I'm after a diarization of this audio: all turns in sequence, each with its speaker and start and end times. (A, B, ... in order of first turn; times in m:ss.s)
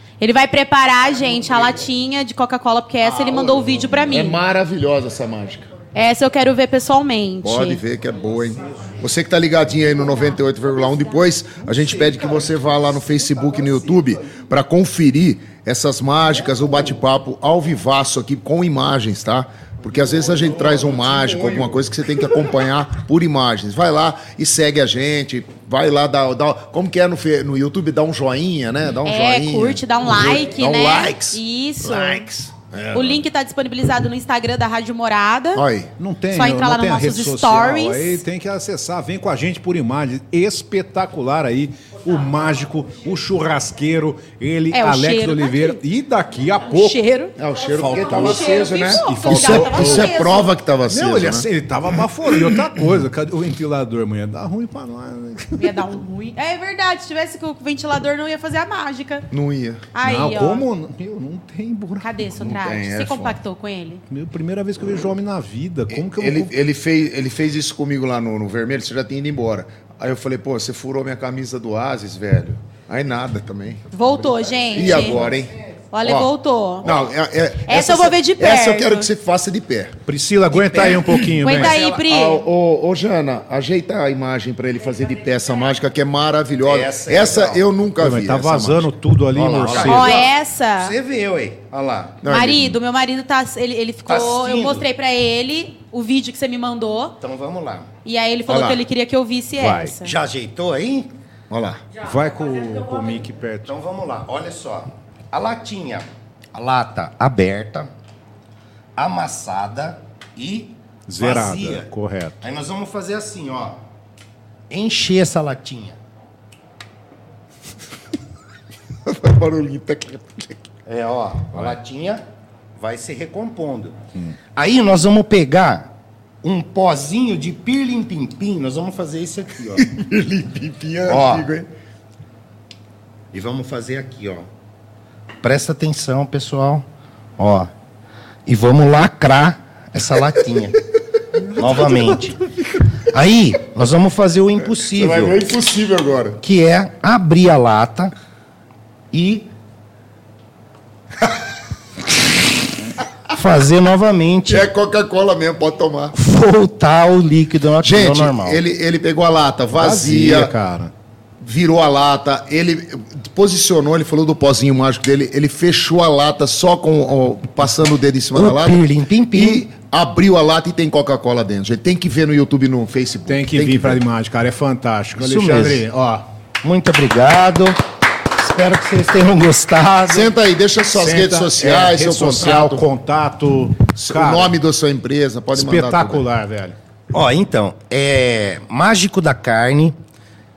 0:00.2-0:04.4 A
0:03.6-0:05.7 B
0:05.9-0:07.8 A
0:07.4-0:31.1 B
0:08.6-0:09.0 C
0:11.9-0:12.4 C
0:13.5-0:14.0 C
0:20.3-0:21.8 D
0:29.0-0:32.3 A
0:30.6-0:31.4 C
0:31.8-0:33.2 B
0:32.9-0:35.6 A
0:35.6-0:35.9 B
0:36.0-0:47.0 D
0:36.3-0:38.2 A
0:44.7-0:45.8 A
0:46.7-0:50.6 A
0:47.4-0:51.5 B
0:47.8-0:50.2 D
0:50.9-0:56.0 D
0:52.2-0:52.7 B
0:55.6-0:59.3 A
0:59.3-0:59.8 B
0:59.9-1:00.7 A
1:00.0-1:02.1 D
1:02.0-1:04.0 A
1:02.4-1:03.4 B
1:04.1-1:06.5 D
1:05.9-1:13.9 B
1:13.9-1:15.2 A
1:14.6-1:20.0 B
1:14.7-1:15.4 C
1:15.9-1:16.9 A
1:17.7-1:19.1 A
1:20.1-1:21.8 D
1:20.5-1:30.0 B
1:21.4-1:22.4 A
1:26.6-1:27.6 C
1:28.0-1:30.3 D
1:29.7-1:32.2 C
1:29.8-1:31.0 A
1:32.2-1:32.8 B
1:32.3-1:37.2 A
1:34.1-1:34.9 C
1:37.2-1:37.9 C
1:38.0-1:40.1 A
1:38.5-1:38.8 B
1:39.6-1:40.0 D
1:40.0-1:41.1 C
1:41.5-1:41.8 B
1:42.0-1:43.7 D
1:43.6-1:47.9 C
1:49.0-1:51.9 C
1:51.1-1:52.4 D
1:52.4-1:53.8 C
1:54.7-1:56.0 C
1:59.0-2:00.6 B
2:00.9-2:02.2 C
2:02.8-2:04.0 C
2:04.6-2:05.9 C
2:06.4-2:10.0 C
2:09.8-2:11.7 B
2:11.1-2:11.5 C
2:13.3-2:14.5 C
2:15.4-2:16.9 C
2:17.4-2:17.7 C
2:18.5-2:20.8 C
2:21.5-2:22.4 C
2:23.0-2:25.4 C
2:24.9-2:26.4 B
2:26.4-2:28.1 C
2:29.1-2:29.5 C
2:33.3-2:34.7 C
2:34.5-2:36.2 B
2:36.1-2:38.6 C
2:37.8-2:40.5 B
2:39.7-2:40.9 D
2:41.4-2:54.0 B
2:48.4-2:49.7 C
2:53.3-2:56.2 D
2:55.2-2:55.8 C
2:56.6-3:00.3 C
3:00.1-3:02.9 B
3:00.9-3:04.5 D
3:04.1-3:06.3 B
3:05.5-3:06.8 D
3:07.1-3:10.0 C